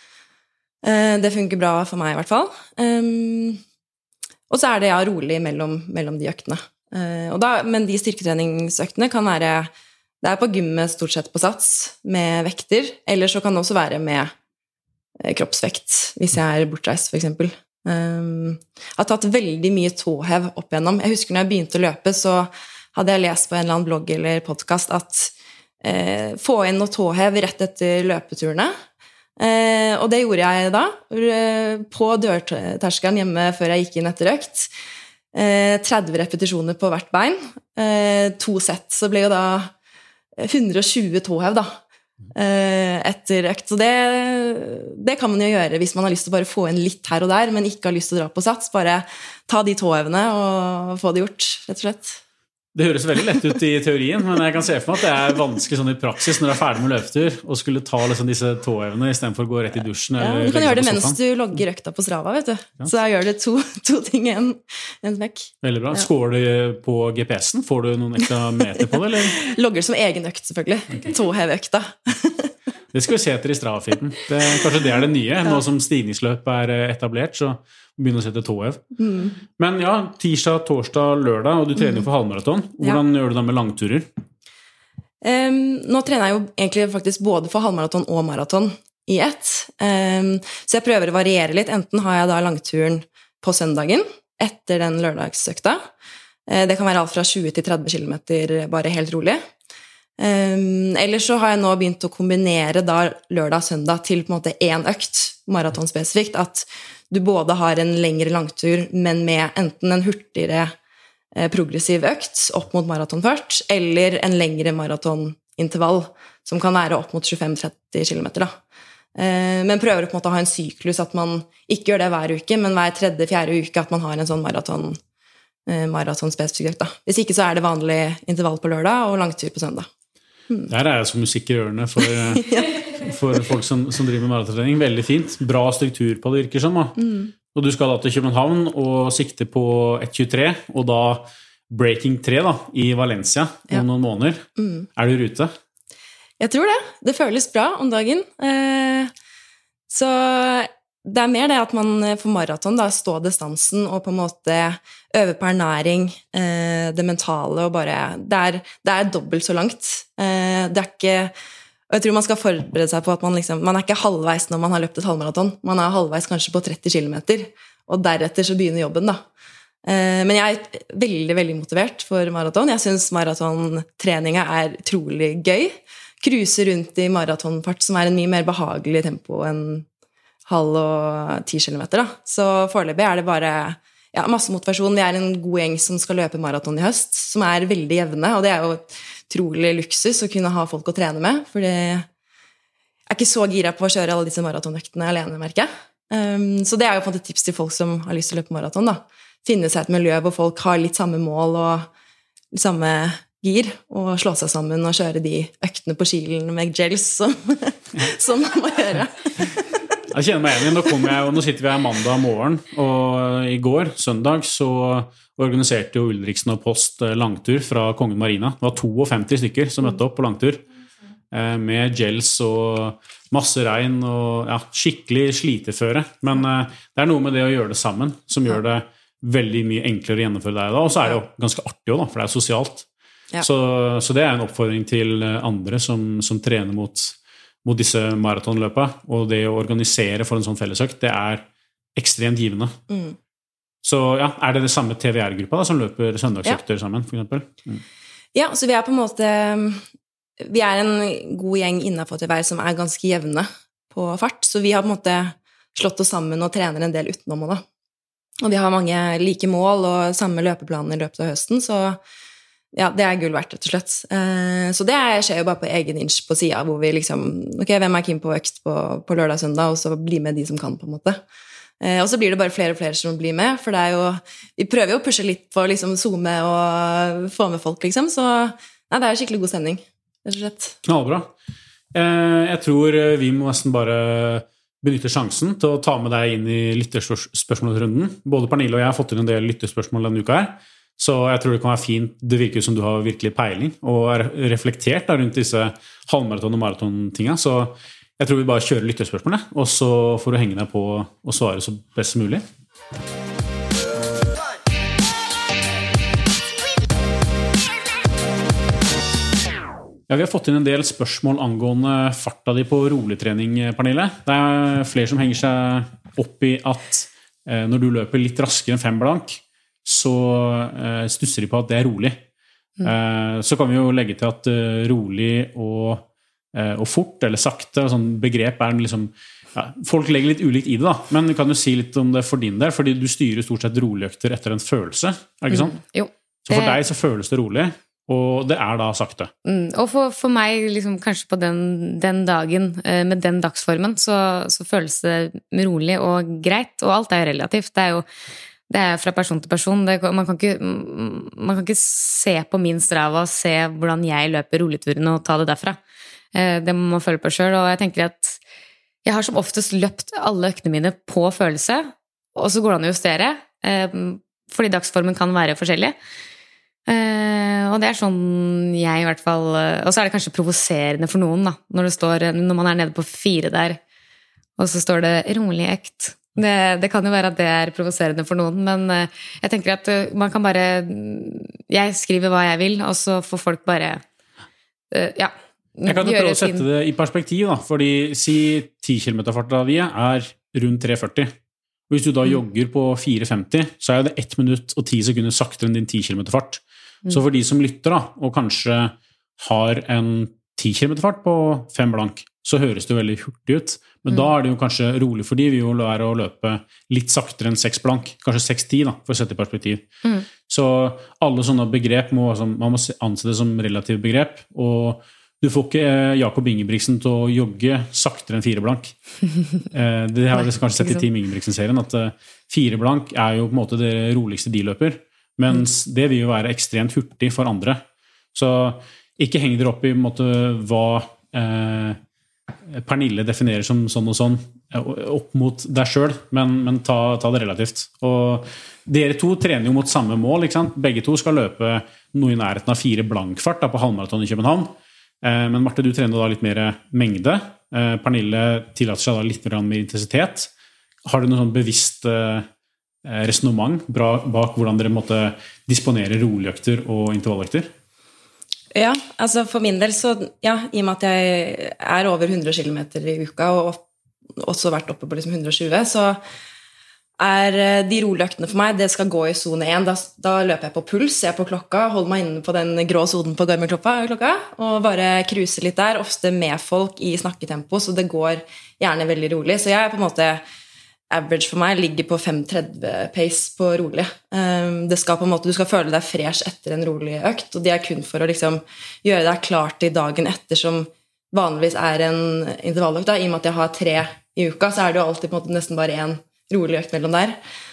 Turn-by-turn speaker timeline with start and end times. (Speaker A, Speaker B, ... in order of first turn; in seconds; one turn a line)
Speaker A: 0.8-3.6
Speaker A: 4.5-9.7
Speaker A: 10.2-14.3
Speaker A: 15.2-28.7
Speaker A: 29.4-34.7
Speaker A: 35.3-39.7
Speaker A: 40.4-41.8
Speaker A: 42.3-52.2
Speaker B: 52.7-61.2
Speaker A: 60.2-66.0
Speaker B: 65.6-69.4
Speaker A: 68.8-72.5
Speaker B: 72.9-78.8
Speaker A: 79.0-79.3
Speaker B: 79.6-84.0
Speaker A: 85.2-95.8
Speaker A: 96.5-99.4
Speaker A: 100.2-110.7
Speaker A: 111.3-118.5
Speaker A: 119.1-125.0
Speaker A: 125.7-129.9
Speaker B: 130.7-136.9
Speaker A: 132.4-132.8
Speaker A: 137.0-137.3
Speaker B: 137.5-144.4
Speaker A: 144.6-144.9
Speaker B: 144.9-145.5
Speaker A: 146.4-149.1
Speaker A: 149.9-161.3
Speaker A: 161.9-169.2
Speaker A: 169.8-179.8
Speaker A: 180.5-192.1
Speaker A: 193.1-201.9
Speaker A: 202.5-209.8
Speaker B: 210.1-220.6
Speaker B: 221.3-232.9
Speaker B: 233.4-242.8
Speaker A: 242.9-243.2
Speaker B: 243.8-247.8
Speaker A: 248.3-249.8
Speaker A: 250.4-257.6
Speaker A: 258.4-262.0
Speaker A: 262.7-271.2
Speaker A: 271.8-280.8
Speaker B: 280.8-281.3
Speaker B: 281.9-302.4
Speaker B: 310.1-322.2
Speaker B: 322.8-335.8
Speaker C: 335.5-336.8
Speaker B: 336.4-339.3
Speaker C: 339.4-348.0
Speaker C: 348.7-355.8
Speaker C: 356.3-358.4
Speaker C: 359.0-365.9
Speaker C: 366.9-373.8
Speaker C: 374.6-384.0
Speaker C: 384.9-386.6
Speaker B: 385.9-391.3
Speaker B: 391.9-409.9
Speaker B: 410.5-418.9
Speaker B: 419.7-427.8
Speaker B: 428.3-432.0
Speaker B: 432.7-450.5
Speaker B: 451.0-452.4
Speaker B: 453.0-457.7
Speaker A: 458.7-463.8
Speaker A: 464.4-466.2
Speaker A: 467.2-480.4
Speaker A: 481.1-497.4